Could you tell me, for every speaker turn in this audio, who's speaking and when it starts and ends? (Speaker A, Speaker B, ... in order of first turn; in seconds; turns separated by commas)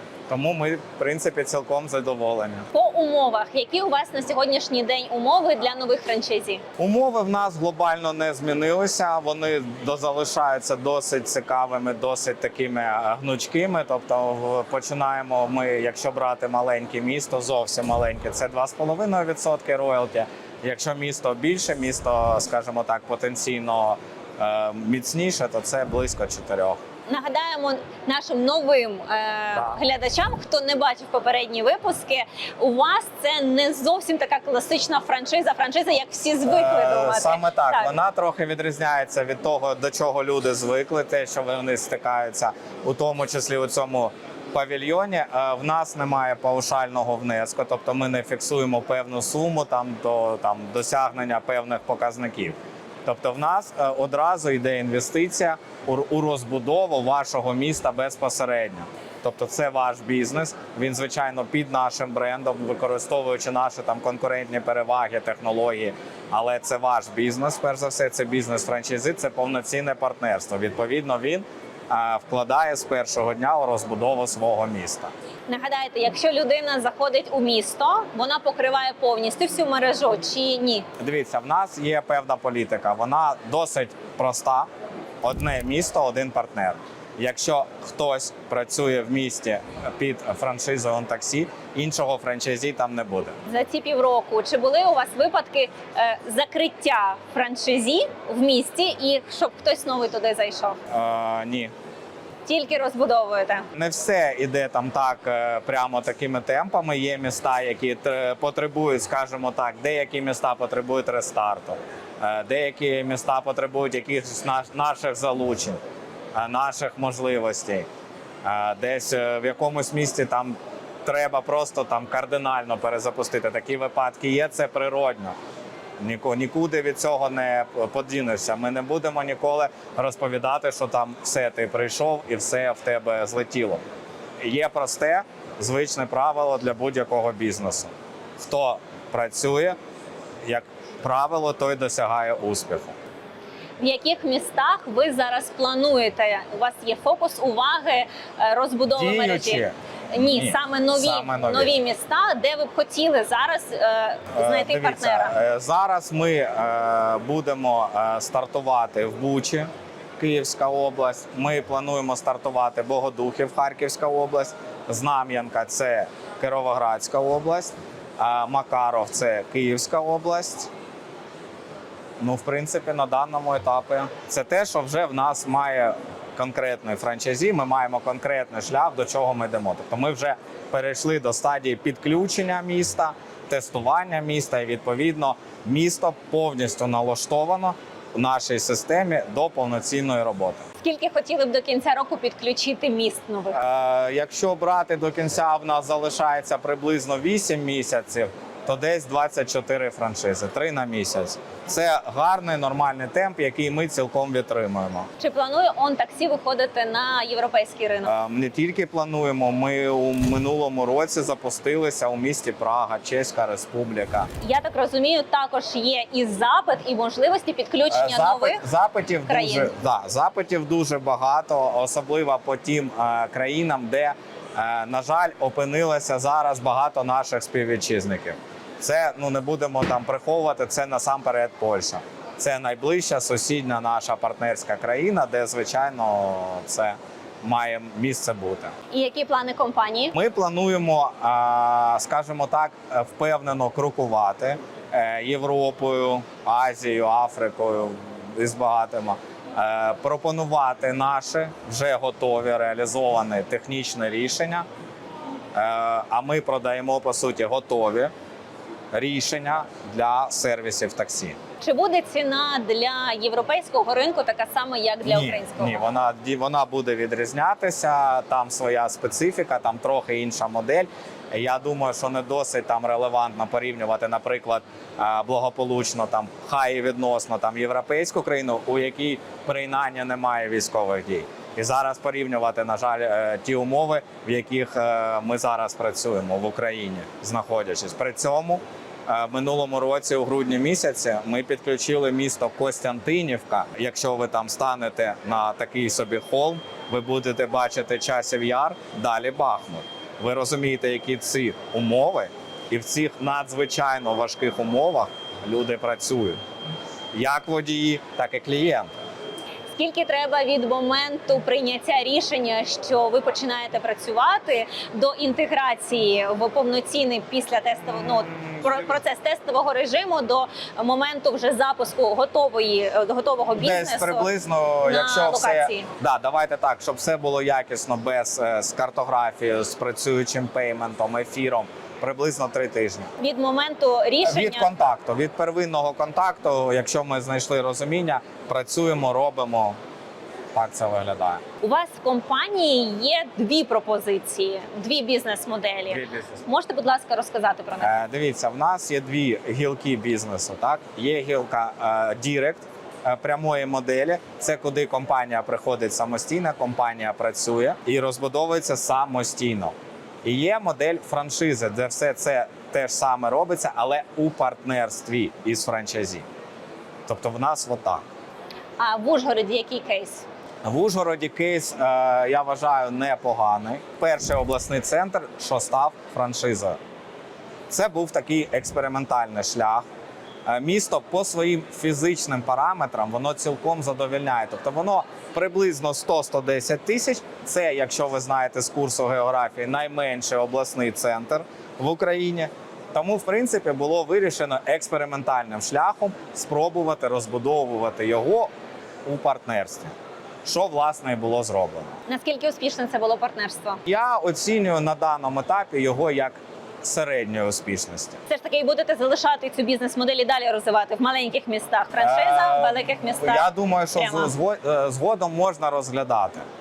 Speaker A: 0.3-2.7, Speaker B: 2.7-6.6, Speaker A: 6.8-26.8, Speaker B: 27.1-37.9, Speaker A: 36.5-75.1, Speaker B: 75.5-80.8, Speaker A: 81.0-84.7, Speaker A: 85.2-93.4, Speaker B: 93.5-100.8, Speaker A: 100.9-101.7, Speaker B: 102.5-103.7, Speaker A: 103.7-115.8, Speaker A: 116.3-117.8, Speaker A: 118.4-125.3, Speaker A: 126.0-133.8, Speaker A: 134.4-139.8, Speaker A: 140.4-142.9, Speaker B: 143.8-155.3, Speaker A: 148.9-151.7, Speaker A: 154.3-170.7, Speaker A: 172.2-190.6, Speaker B: 190.8-193.6, Speaker A: 193.5-205.1, Speaker B: 205.2-208.1, Speaker A: 208.0-214.3, Speaker B: 214.4-218.6, Speaker A: 217.9-238.7, Speaker B: 219.3-219.7, Speaker B: 238.9-240.1, Speaker A: 240.1-254.7, Speaker A: 255.5-258.1, Speaker A: 258.9-261.4, Speaker B: 261.6-265.8, Speaker A: 265.1-306.4, Speaker A: 307.1-309.0, Speaker B: 309.7-324.3, Speaker A: 318.2-318.9, Speaker A: 323.6-333.1, Speaker B: 324.8-325.9, Speaker B: 333.2-334.7, Speaker A: 334.2-339.8, Speaker A: 340.5-341.4, Speaker B: 341.6-347.9, Speaker A: 345.9-346.4, Speaker A: 347.8-366.2, Speaker A: 367.1-368.0, Speaker B: 368.8-370.2, Speaker A: 370.6-376.8, Speaker A: 377.7-379.9, Speaker A: 380.5-398.5, Speaker A: 399.1-399.9, Speaker A: 400.4-401.9, Speaker B: 402.1-403.8, Speaker A: 403.9-408.2, Speaker B: 408.3-414.3, Speaker A: 412.0-416.4